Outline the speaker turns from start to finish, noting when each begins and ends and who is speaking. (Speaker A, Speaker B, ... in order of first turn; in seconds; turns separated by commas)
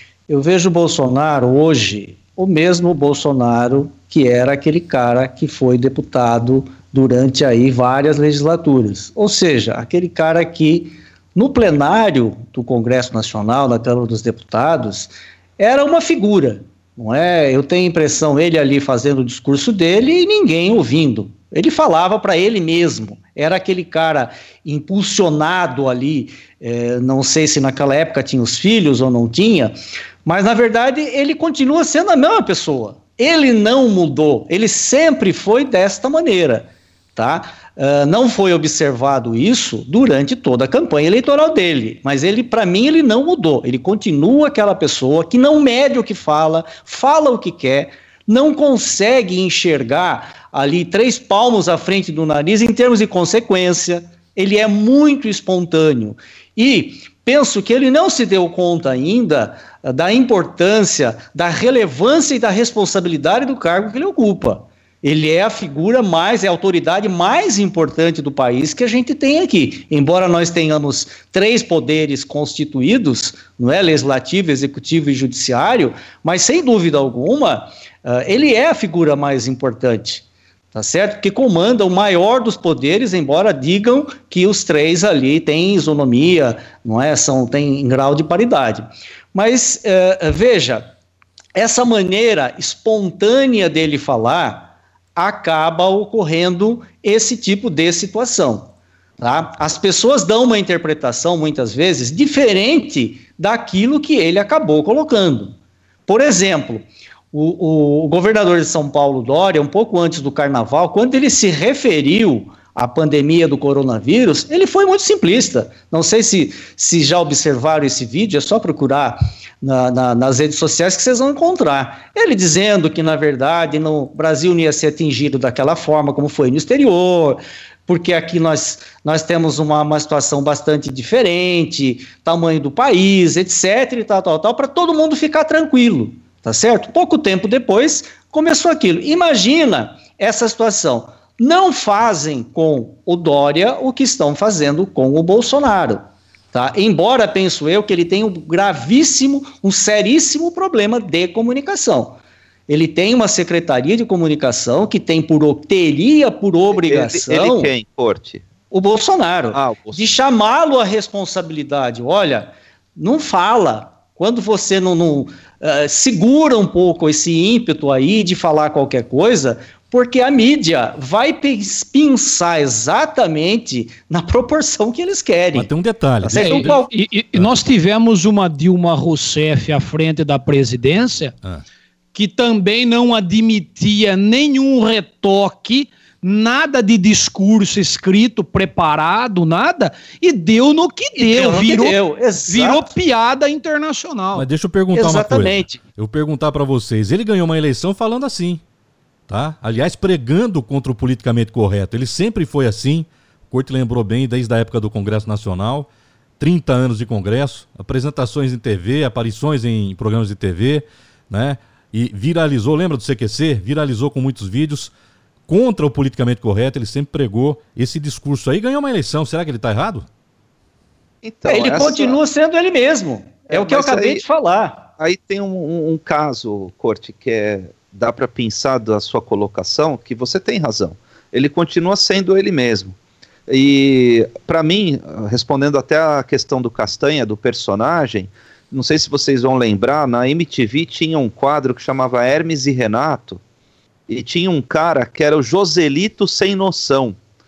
Speaker A: 0.3-80.2, Speaker A: 80.7-90.9, Speaker A: 91.5-105.5, Speaker A: 106.1-157.7, Speaker B: 156.7-158.4, Speaker A: 158.7-175.7, Speaker B: 159.5-160.1, Speaker C: 175.5-177.5, Speaker A: 176.2-176.9, Speaker D: 176.3-181.3, Speaker D: 182.1-194.5, Speaker A: 191.2-192.9, Speaker C: 194.3-198.6, Speaker A: 194.9-195.8, Speaker C: 199.3-205.9, Speaker C: 206.4-214.9, Speaker C: 215.5-220.1, Speaker B: 221.2-222.2, Speaker A: 221.5-224.9, Speaker B: 223.5-224.2, Speaker B: 225.0-232.9, Speaker B: 233.5-243.4, Speaker B: 244.1-247.2